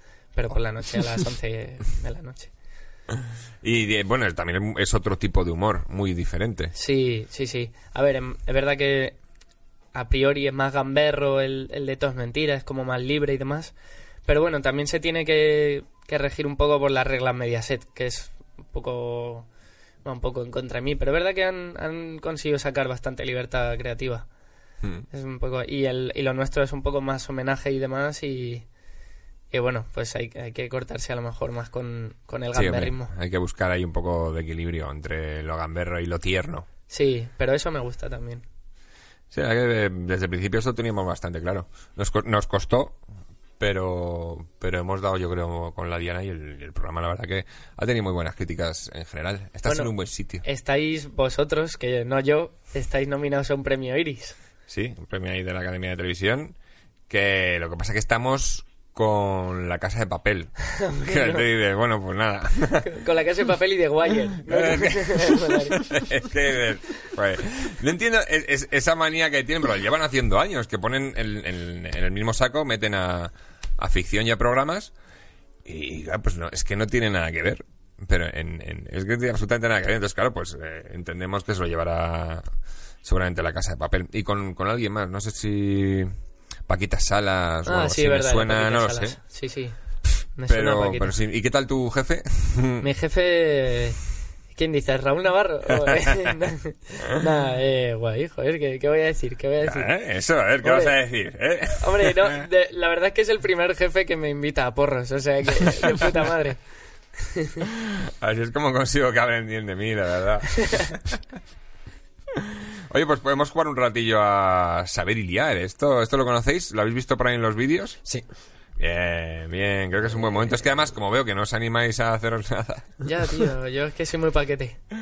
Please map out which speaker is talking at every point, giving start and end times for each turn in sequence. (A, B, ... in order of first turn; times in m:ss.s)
0:00.3-0:02.5 A
0:03.6-0:06.7 B
0:06.7-0:09.2 A
0:09.9-0:13.7 A
0:14.3-0:19.5 A
0:20.0-0:24.3 A
0:25.1-0:28.6 A
0:29.5-0:33.1 A
0:32.5-0:36.7 B
0:36.9-0:38.4 A
0:39.3-0:43.0 B
0:43.6-0:50.4 B
0:49.6-0:49.9 A
0:50.4-0:54.4 A
0:54.7-0:56.5 B
0:57.1-1:03.0 B
1:00.7-1:01.4 A
1:02.8-1:05.9 A
1:04.4-1:14.9 B
1:15.6-1:22.5 B
1:23.0-1:26.1 B
1:26.7-1:29.2 B
1:27.6-1:29.7 A
1:30.4-1:31.1 A
1:30.5-1:32.8 B
1:32.8-1:34.0 A
1:34.5-1:39.9 A
1:39.6-1:42.4 B
1:40.6-1:40.9 A
1:41.7-1:46.6 A
1:47.2-1:47.6 A
1:47.7-1:51.2 B
1:52.3-1:58.0 B
1:58.8-2:03.0 B
2:03.0-2:04.8 A